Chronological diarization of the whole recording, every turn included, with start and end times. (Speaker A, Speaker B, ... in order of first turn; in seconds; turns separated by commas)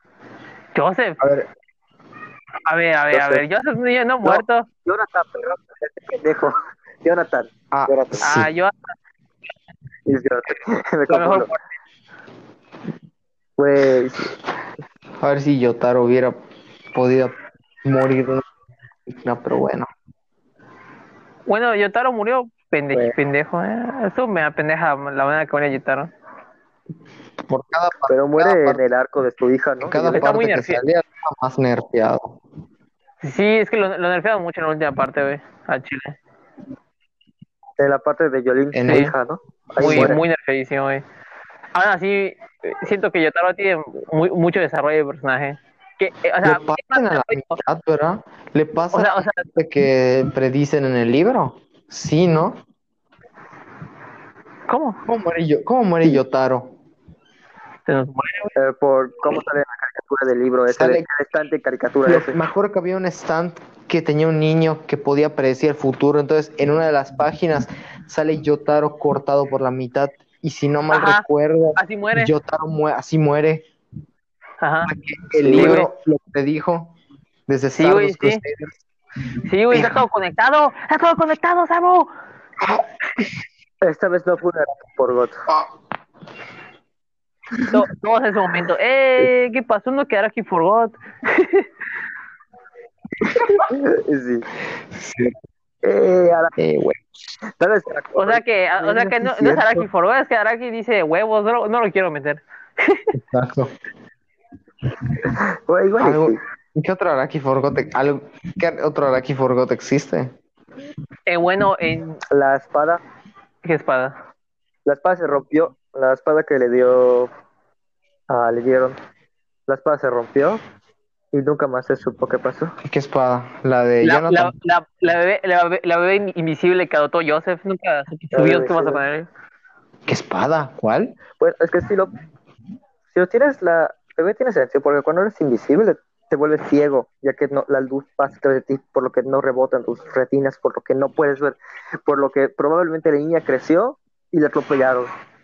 Speaker A: 0.8-1.2, Speaker B: 1.2-1.5, Speaker A: 2.7-4.7, Speaker C: 3.1-3.4, Speaker C: 4.2-8.3, Speaker B: 7.7-8.5, Speaker A: 8.2-8.9, Speaker C: 10.1-11.5, Speaker A: 11.1-11.7, Speaker C: 13.6-14.3, Speaker B: 15.2-16.4, Speaker B: 16.9-18.5, Speaker B: 19.1-19.9, Speaker A: 21.5-26.1, Speaker B: 27.5-28.9, Speaker C: 28.1-30.3, Speaker B: 29.9-32.4, Speaker A: 30.1-30.8, Speaker A: 33.2-36.2, Speaker C: 37.8-40.2, Speaker B: 38.7-39.1, Speaker A: 38.9-39.1, Speaker B: 39.8-40.2, Speaker A: 39.8-41.0, Speaker A: 41.7-47.6, Speaker B: 46.4-52.6, Speaker A: 48.9-49.5, Speaker A: 54.7-55.0, Speaker B: 55.1-56.7, Speaker A: 57.9-58.5, Speaker C: 58.6-62.4, Speaker B: 60.7-61.0, Speaker B: 62.1-73.7, Speaker A: 70.9-71.3, Speaker A: 71.8-72.3, Speaker A: 74.6-74.9, Speaker B: 74.9-76.9, Speaker C: 75.4-75.8, Speaker A: 75.5-75.9, Speaker B: 77.5-78.8, Speaker A: 77.8-78.4, Speaker A: 79.5-82.1, Speaker B: 79.7-80.0, Speaker C: 83.8-85.5, Speaker A: 87.7-91.7, Speaker C: 93.5-94.5, Speaker B: 94.9-95.3, Speaker C: 95.8-96.5, Speaker B: 96.6-97.4, Speaker C: 97.5-99.9, Speaker A: 98.2-103.1, Speaker B: 103.1-103.7, Speaker C: 105.2-106.4, Speaker B: 106.0-110.3, Speaker A: 111.3-112.2, Speaker C: 112.3-113.0, Speaker A: 113.6-114.2, Speaker C: 114.9-117.3, Speaker C: 118.3-119.0, Speaker C: 119.7-120.6, Speaker C: 121.3-122.7, Speaker B: 122.8-124.5, Speaker A: 124.0-129.3, Speaker C: 128.3-129.0, Speaker B: 130.1-131.2, Speaker C: 131.4-132.1, Speaker C: 133.1-145.1